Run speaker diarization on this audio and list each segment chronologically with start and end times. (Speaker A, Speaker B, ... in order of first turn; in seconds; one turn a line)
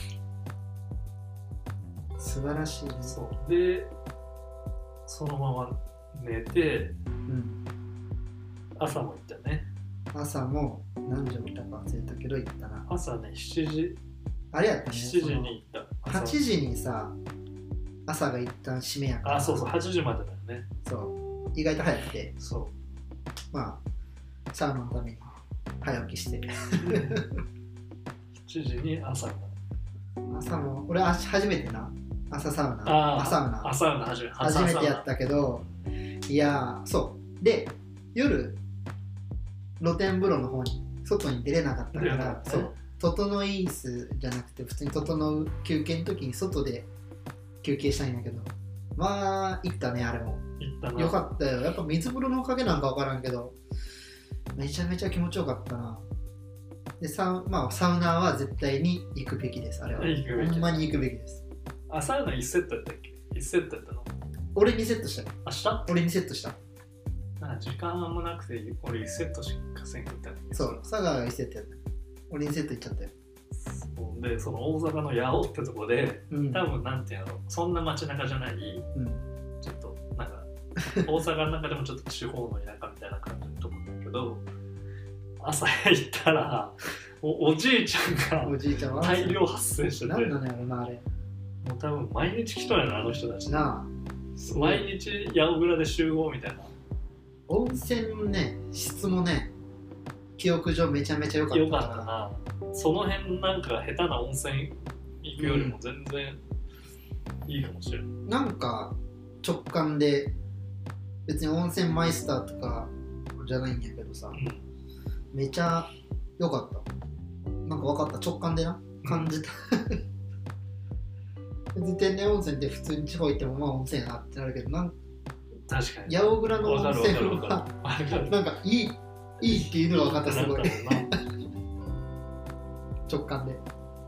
Speaker A: 2.2-3.2
Speaker B: 3.0-3.9
Speaker B: 5.1-7.0
Speaker A: 7.3-7.6
Speaker B: 8.8-9.7
Speaker A: 10.1-12.9
Speaker B: 12.9-14.0
Speaker A: 14.5-17.2
Speaker B: 14.9-16.4
Speaker A: 18.1-19.7
Speaker B: 19.2-20.7
Speaker A: 20.9-22.3
Speaker B: 22.4-22.7
Speaker A: 23.5-23.8
Speaker A: 24.5-27.4
Speaker B: 26.8-27.2
Speaker B: 28.4-29.6
Speaker A: 30.3-33.8
Speaker B: 32.9-35.1
Speaker A: 34.4-35.6
Speaker A: 36.3-38.6
Speaker A: 39.8-46.9
Speaker B: 41.9-42.8
Speaker A: 47.6-50.5
Speaker B: 50.6-51.2
Speaker A: 51.0-53.6
Speaker A: 54.6-56.0
Speaker A: 57.0-61.4
Speaker B: 60.0-60.9
Speaker B: 61.9-64.1
Speaker A: 64.5-66.6
Speaker B: 65.5-66.0
Speaker B: 67.4-70.9
Speaker A: 70.5-71.8
Speaker A: 72.3-73.1
Speaker B: 73.5-78.9
Speaker A: 76.3-76.7
Speaker A: 79.0-79.2
Speaker B: 79.6-84.4
Speaker B: 85.4-90.4
Speaker A: 88.4-89.4
Speaker A: 90.0-91.0
Speaker B: 91.6-93.7
Speaker A: 93.5-94.9
Speaker B: 94.5-96.7
Speaker A: 97.5-99.5
Speaker A: 100.4-102.1
Speaker B: 101.5-106.4
Speaker A: 105.4-105.8
Speaker B: 107.5-108.1
Speaker A: 108.3-110.3
Speaker A: 111.3-114.4
Speaker B: 114.3-114.7
Speaker A: 115.3-116.9
Speaker A: 117.7-120.0
Speaker B: 119.0-119.3
Speaker A: 121.8-124.9
Speaker B: 125.7-128.4
Speaker A: 126.1-127.7
Speaker A: 128.2-131.1
Speaker B: 129.4-131.1
Speaker A: 133.1-133.6